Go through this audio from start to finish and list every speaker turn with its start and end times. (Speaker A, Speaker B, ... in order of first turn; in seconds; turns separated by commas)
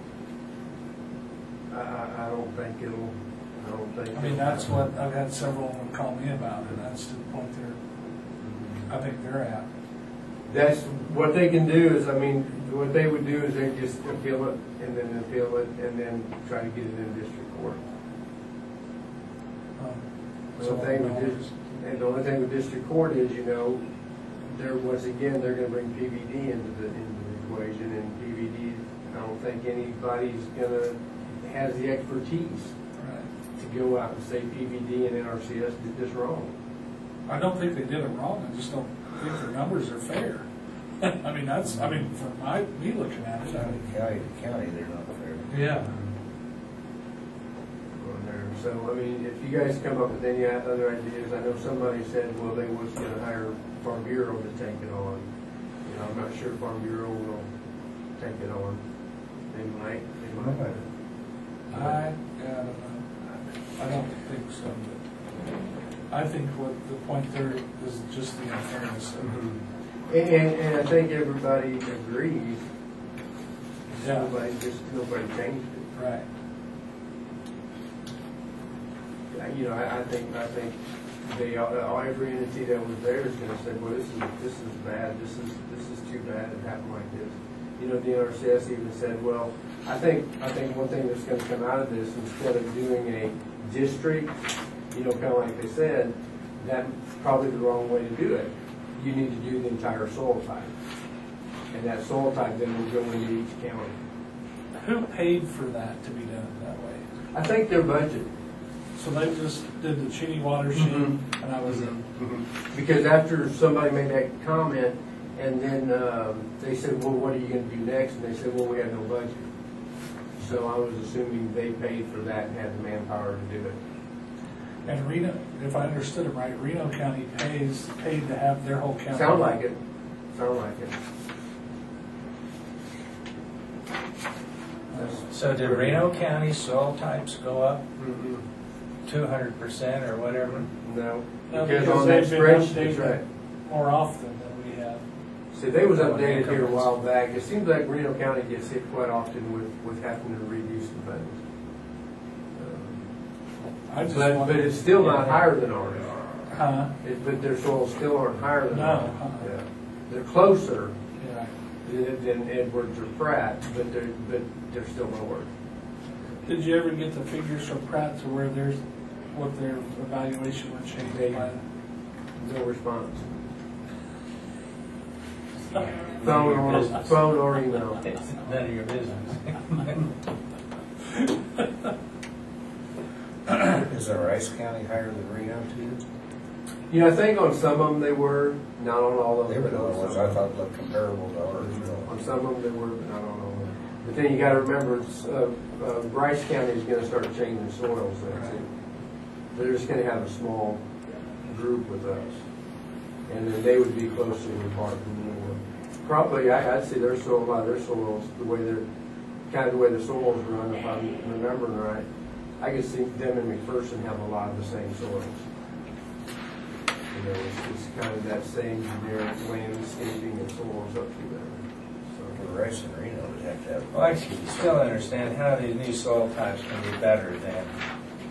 Speaker A: 1.7-4.8, Speaker B: 4.1-7.8, Speaker A: 8.4-8.9, Speaker B: 8.9-9.7, Speaker A: 10.4-17.8, Speaker B: 19.8-21.8, Speaker A: 20.6-23.9, Speaker A: 24.4-32.8, Speaker B: 33.0-33.3, Speaker A: 33.5-36.5, Speaker B: 37.3-40.5, Speaker B: 41.0-43.9, Speaker C: 43.5-45.5, Speaker B: 45.5-46.0, Speaker A: 45.8-46.1, Speaker A: 48.0-55.3, Speaker A: 55.8-57.5, Speaker A: 58.2-60.9, Speaker C: 60.4-60.7, Speaker C: 61.7-62.0, Speaker B: 61.7-65.0, Speaker B: 66.1-69.4, Speaker A: 69.2-72.7, Speaker A: 73.9-75.9, Speaker B: 74.0-74.3, Speaker B: 76.0-76.3, Speaker A: 79.3-94.4, Speaker A: 94.9-100.7, Speaker A: 101.7-104.0, Speaker B: 104.8-107.0, Speaker A: 107.3-108.3, Speaker B: 109.0-112.0, Speaker A: 110.7-119.5, Speaker A: 120.4-123.8, Speaker B: 124.8-129.6, Speaker A: 129.1-129.8, Speaker A: 130.3-131.0, Speaker B: 134.9-135.2, Speaker A: 134.9-136.1, Speaker D: 135.3-137.8, Speaker A: 138.0-138.4, Speaker D: 139.1-140.7, Speaker A: 140.4-143.2, Speaker B: 141.5-145.1, Speaker A: 145.5-151.4, Speaker B: 145.9-146.9, Speaker A: 152.5-153.3, Speaker B: 153.9-155.5, Speaker A: 154.0-156.5, Speaker B: 156.5-156.9, Speaker A: 157.0-161.0, Speaker B: 158.7-159.5, Speaker B: 161.2-161.6, Speaker A: 161.8-165.5, Speaker B: 166.4-171.6, Speaker A: 171.1-171.5, Speaker A: 172.4-173.3, Speaker D: 175.7-177.3, Speaker A: 176.2-178.0, Speaker D: 178.1-180.0, Speaker C: 183.6-186.0, Speaker A: 186.9-190.4, Speaker C: 189.4-192.2, Speaker A: 191.6-198.7, Speaker A: 199.5-202.4, Speaker A: 203.3-208.9, Speaker A: 209.5-212.1, Speaker A: 212.6-215.4, Speaker A: 217.1-222.4, Speaker C: 222.3-225.0, Speaker D: 223.9-227.7